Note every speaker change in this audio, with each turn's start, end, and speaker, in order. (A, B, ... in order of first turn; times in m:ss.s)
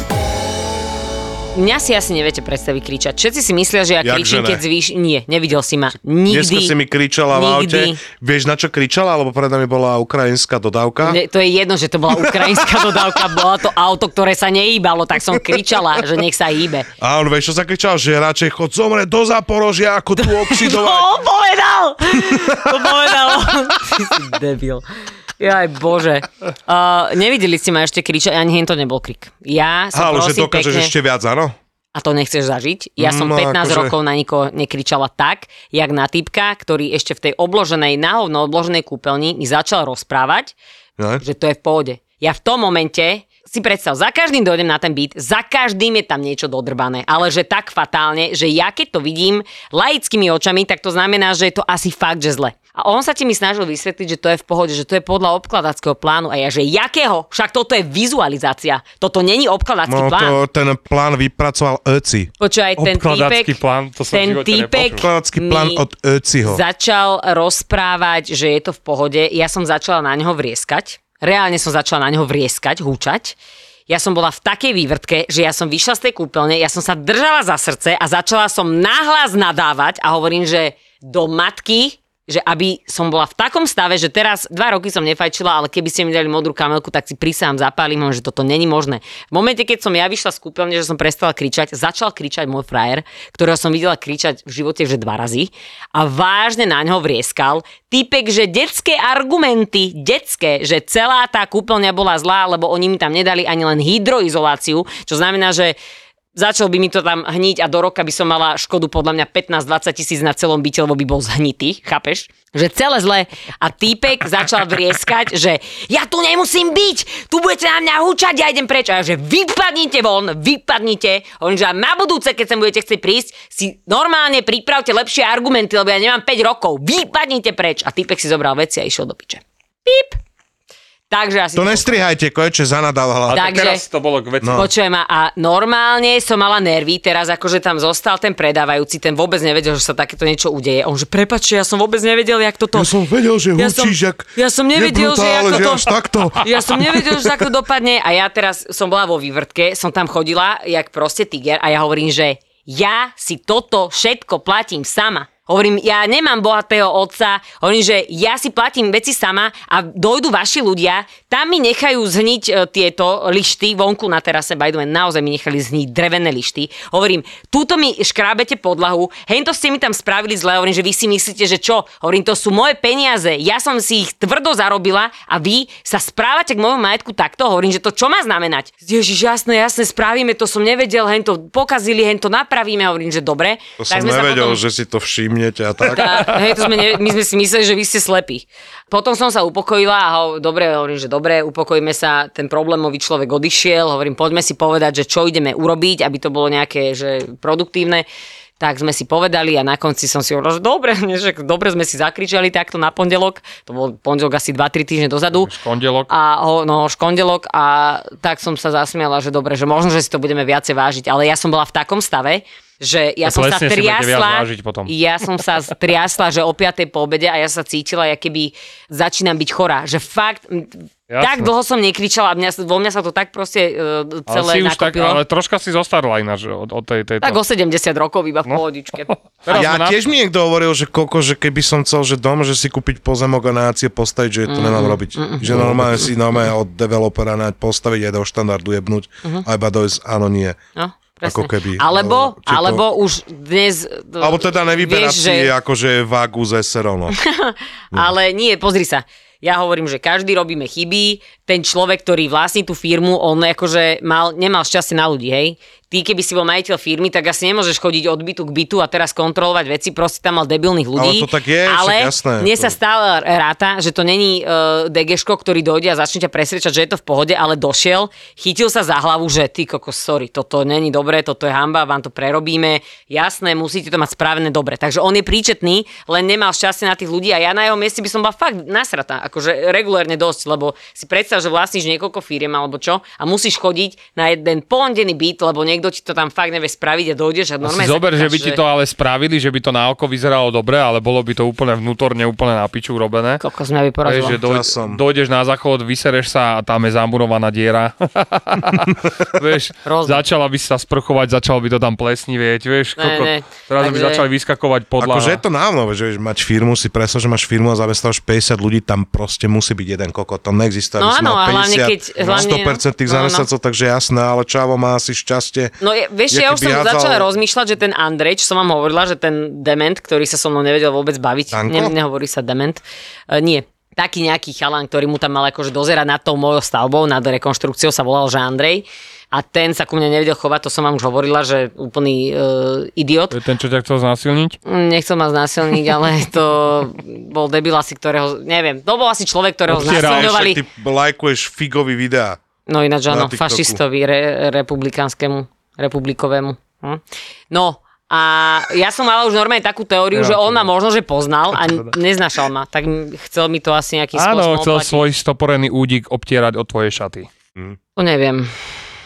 0:01.5-0:06.8 A
0:04.0-0:04.6 B
0:06.3-0:11.2 B
0:07.3-0:08.0 A
0:11.0-0:16.9 A
0:12.4-0:12.8 B
0:17.0-0:21.1 B
0:20.2-0:24.8 A
0:22.2-0:23.0 B
0:25.4-0:30.9 A
0:29.9-0:31.6 B
0:31.9-0:40.5 A
0:33.0-0:34.0 B
0:41.0-0:41.2 B
0:41.2-1:00.4 A
0:59.9-1:02.3 B
1:02.4-1:03.6 A
1:02.8-1:05.0 C
1:04.1-1:05.8 A
1:04.8-1:06.6 B
1:06.4-1:13.4 A
1:13.9-1:45.8 A
1:46.3-2:10.2 A
2:11.1-2:12.0 A
2:11.6-2:13.5 B
2:13.3-2:14.7 C
2:13.3-2:13.8 A
2:14.4-2:14.7 B
2:14.5-2:22.9 A
2:22.7-2:27.4 B
2:23.5-3:04.6 A
3:03.8-3:06.6 B
3:05.8-3:18.0 A
3:18.6-3:25.5 A
3:25.3-3:26.1 C
3:26.1-3:45.2 A
3:33.2-3:34.9 C
3:41.1-3:41.5 C
3:44.3-3:47.4 C
3:47.2-3:49.1 A
3:48.4-3:50.0 C
3:49.5-4:00.6 B
3:54.5-3:56.1 A
4:00.8-4:05.5 A
4:01.2-4:02.8 B
4:04.2-4:07.2 B
4:07.2-4:48.6 A
4:21.0-4:22.8 B
4:47.6-4:53.4 C
4:53.4-4:54.4 A
4:54.0-5:05.4 C
4:54.4-4:55.0 B
4:59.8-5:00.2 A
5:03.0-5:04.2 A
5:05.0-5:15.8 B
5:11.0-5:13.5 A
5:15.8-5:33.4 A
5:16.3-5:17.3 B
5:21.5-5:21.9 B
5:33.3-5:34.6 C
5:34.6-5:40.6 A
5:39.7-5:40.4 C
5:39.7-5:42.4 B
5:42.7-5:55.1 A
5:43.1-5:43.8 B
5:50.1-5:50.6 C
5:51.6-5:51.9 C
5:54.1-5:57.3 C
5:58.0-5:58.5 A